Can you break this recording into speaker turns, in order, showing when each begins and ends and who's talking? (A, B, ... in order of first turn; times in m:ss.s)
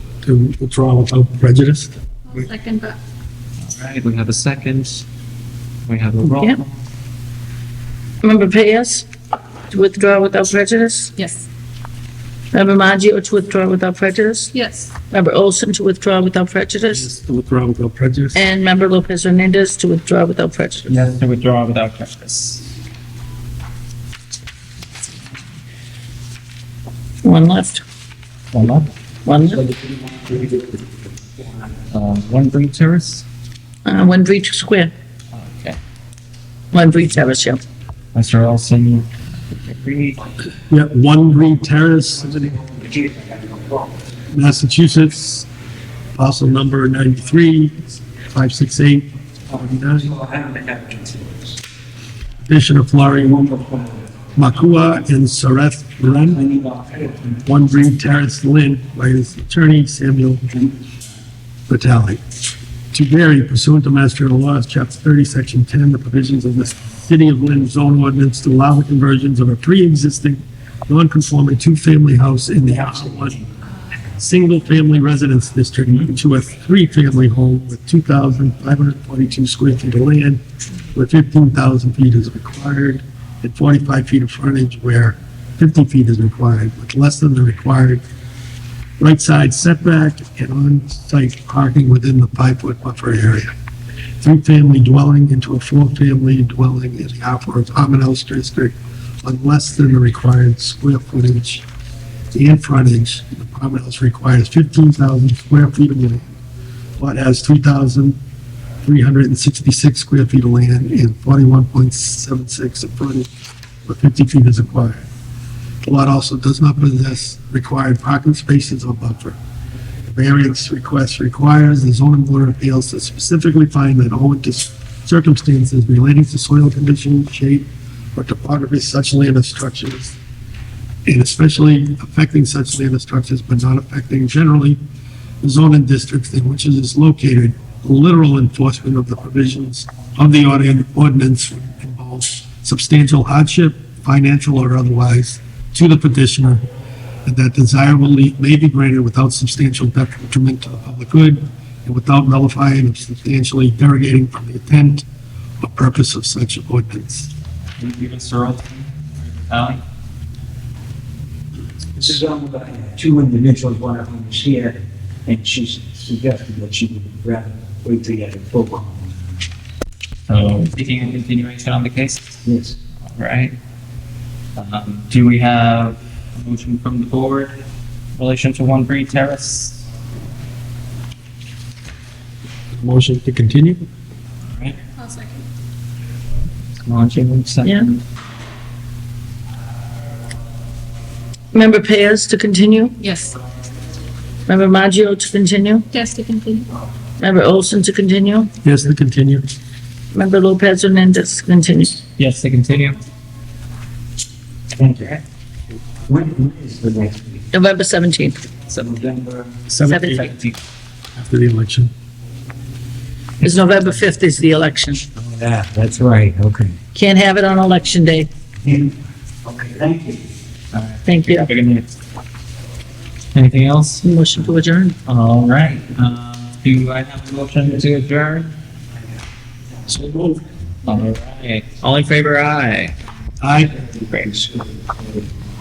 0:00.2-0:01.9 A
0:02.3-0:03.0 B
0:03.6-0:05.0 C
0:05.8-0:06.8 C
0:06.3-0:06.6 D
0:08.2-0:09.1 D
0:09.7-0:11.1 D
0:11.2-0:11.4 B
0:12.5-0:14.5 D
0:14.5-0:14.9 B
0:15.1-0:17.1 D
0:16.9-0:18.4 A
0:18.3-0:20.9 D
0:20.9-0:22.7 C
0:27.2-0:27.8 D
0:28.5-0:28.9 C
0:29.2-0:29.6 D
0:29.7-0:30.6 E
0:31.9-0:33.2 C
0:33.8-0:34.9 D
0:35.3-0:35.8 C
0:36.7-0:37.6 D
0:38.1-0:40.2 C
0:40.7-0:42.6 A
0:42.5-0:44.0 E
0:44.3-0:45.5 A
0:46.1-0:50.1 A
0:49.9-0:51.6 E
0:52.4-0:53.4 A
0:53.2-0:54.1 E
0:54.4-0:56.4 A
0:56.2-0:57.4 E
0:57.4-1:00.4 A
1:01.7-1:02.2 A
1:02.9-1:13.4 A
1:14.2-1:20.4 A
1:20.9-1:28.0 A
1:29.0-1:33.5 A
1:34.2-1:41.6 A
1:42.3-1:46.3 A
1:47.0-1:48.2 A
1:48.8-1:53.3 A
1:53.8-1:55.0 A
1:55.8-1:59.4 A
2:00.1-2:10.2 A
2:11.0-2:14.8 A
2:15.4-2:26.6 A
2:27.2-2:35.0 A
2:35.6-2:37.3 A
2:37.8-2:39.8 C
2:42.0-2:49.4 E
2:50.3-2:52.4 C
2:52.4-2:52.8 E
2:53.1-2:53.6 C
2:54.6-2:57.6 C
2:58.2-2:59.8 C
3:02.7-3:03.8 A
3:04.5-3:04.8 C
3:05.0-3:05.4 B
3:06.8-3:08.0 C
3:11.5-3:13.0 D
3:13.0-3:13.4 B
3:14.5-3:15.8 D
3:15.9-3:16.7 B
3:17.2-3:18.5 D
3:18.6-3:19.5 A
3:20.1-3:22.0 D
3:22.2-3:23.0 C
3:24.8-3:25.2 E
3:26.1-3:27.4 E
3:27.5-3:28.4 D
3:28.8-3:29.6 E
3:29.7-3:30.6 C
3:29.8-3:30.2 A
3:29.8-3:30.3 D
3:31.2-3:31.9 A
3:33.4-3:35.0 D
3:35.2-3:36.8 E
3:36.9-3:38.3 D
3:38.6-3:40.2 E
3:40.7-3:41.8 C
3:41.0-3:41.5 D
3:43.3-3:44.0 C
3:44.0-3:45.0 D
3:45.0-3:48.5 C
3:49.9-3:50.4 A
3:50.8-3:52.9 C
3:53.4-3:53.7 A
3:54.1-3:54.4 C